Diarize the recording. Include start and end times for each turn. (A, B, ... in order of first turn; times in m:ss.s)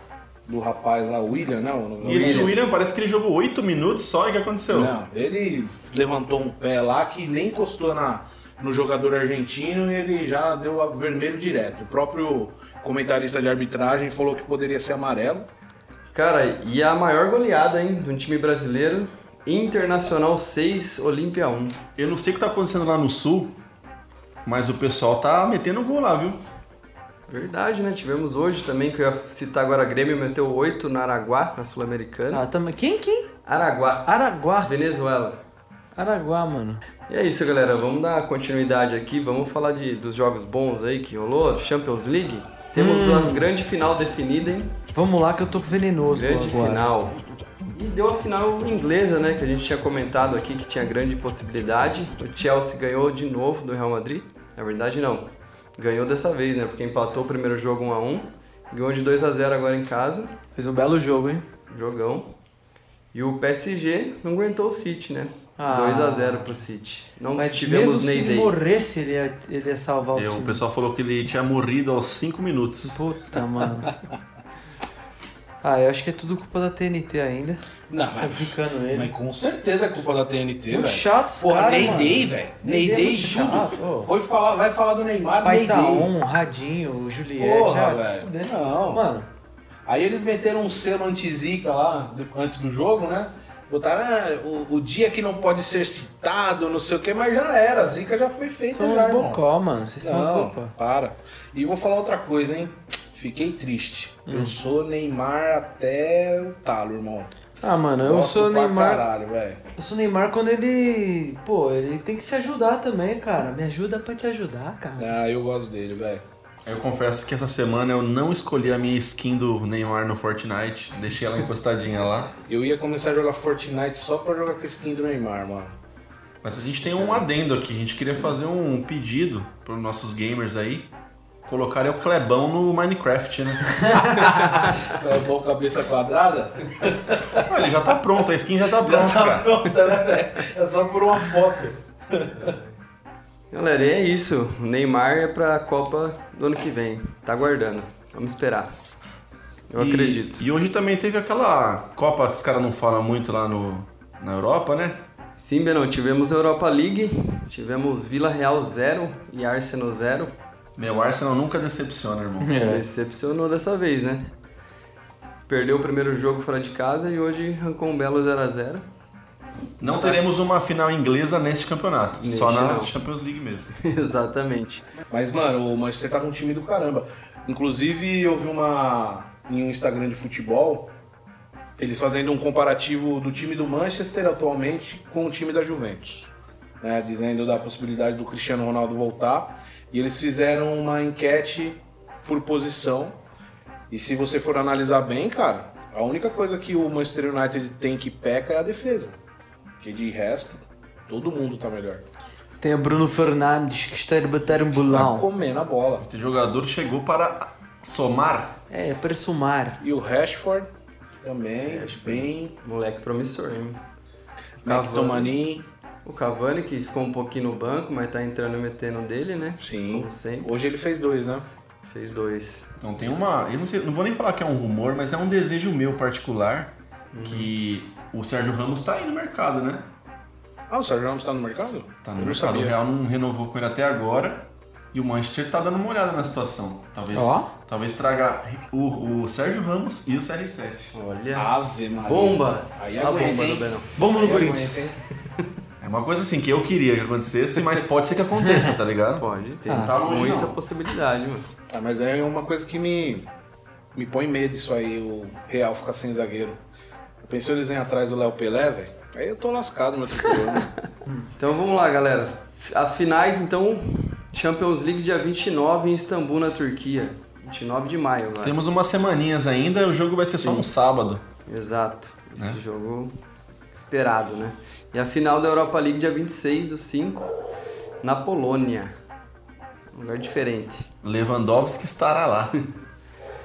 0:00.4-0:02.6 A
0:02.0-0:04.9 B
0:04.7-0:15.5 A
0:16.1-0:21.8 C
0:22.0-0:23.6 B
0:24.4-0:26.4 B
0:27.3-0:32.4 C
0:32.3-0:33.3 D
0:33.4-0:35.4 C
0:34.0-0:34.7 D
0:36.0-0:36.8 D
0:37.1-0:44.8 C
0:42.8-0:43.5 D
0:44.9-0:46.8 D
0:46.1-1:00.3 C
1:00.5-1:01.4 D
1:01.7-1:02.3 C
1:03.1-1:08.5 C
1:05.6-1:06.6 D
1:07.4-1:10.6 D
1:10.2-1:13.0 B
1:12.8-1:13.9 D
1:15.6-1:17.6 D
1:17.9-1:26.1 A
1:18.2-1:19.1 D
1:20.7-1:24.1 D
1:25.4-1:29.3 D
1:27.4-1:29.0 A
1:29.8-1:39.4 A
1:38.7-1:40.7 D
1:40.0-1:47.3 A
1:44.3-1:44.6 D
1:47.6-1:49.0 D
1:48.0-1:49.6 A
1:49.8-1:55.1 D
1:55.0-1:56.2 A
1:56.6-2:02.3 B
2:02.5-2:05.8 A
2:06.4-2:10.9 B
2:11.4-2:14.0 B
2:13.8-2:14.3 D
2:14.0-2:17.6 A
2:17.4-2:19.6 B
2:18.8-2:22.5 A
2:22.4-2:22.7 C
2:23.5-2:28.7 C
2:29.7-2:30.4 C
2:29.8-2:35.0 B
2:35.4-2:40.3 C
2:40.8-2:42.7 B
2:42.4-2:42.8 D
2:42.6-2:44.3 C
2:45.5-2:48.8 C
2:49.8-2:50.2 C
2:49.8-2:53.7 B
2:52.2-2:52.9 C
2:53.8-2:54.8 C
2:55.1-3:00.9 A
3:01.8-3:13.2 A
3:13.9-3:19.2 A
3:19.8-3:22.0 A
3:22.6-3:25.3 D
3:24.7-3:26.0 A
3:26.0-3:28.6 B
3:28.7-3:29.8 D
3:29.8-3:30.7 A
3:31.2-3:32.5 A
3:31.6-3:33.8 C
3:34.6-3:35.3 C
3:34.6-3:35.7 A
3:36.0-3:40.5 C
3:39.6-3:41.4 A
3:41.8-3:42.7 C
3:42.8-3:49.9 B
3:47.1-3:47.5 C
3:50.7-3:52.7 A
3:52.0-4:01.0 B
3:57.1-3:57.5 D
4:00.9-4:01.5 C
4:01.3-4:05.0 A
4:02.1-4:03.9 C
4:04.0-4:04.9 D
4:05.8-4:10.6 B
4:09.2-4:11.5 C
4:09.7-4:09.9 D
4:11.7-4:13.3 A
4:13.9-4:16.6 A
4:17.2-4:20.7 A
4:21.4-4:28.6 C
4:28.4-4:31.2 B
4:30.4-4:30.7 C
4:31.5-4:33.1 C
4:33.7-4:37.3 C
4:38.0-4:38.9 C
4:39.9-4:40.9 C
4:41.0-4:42.6 B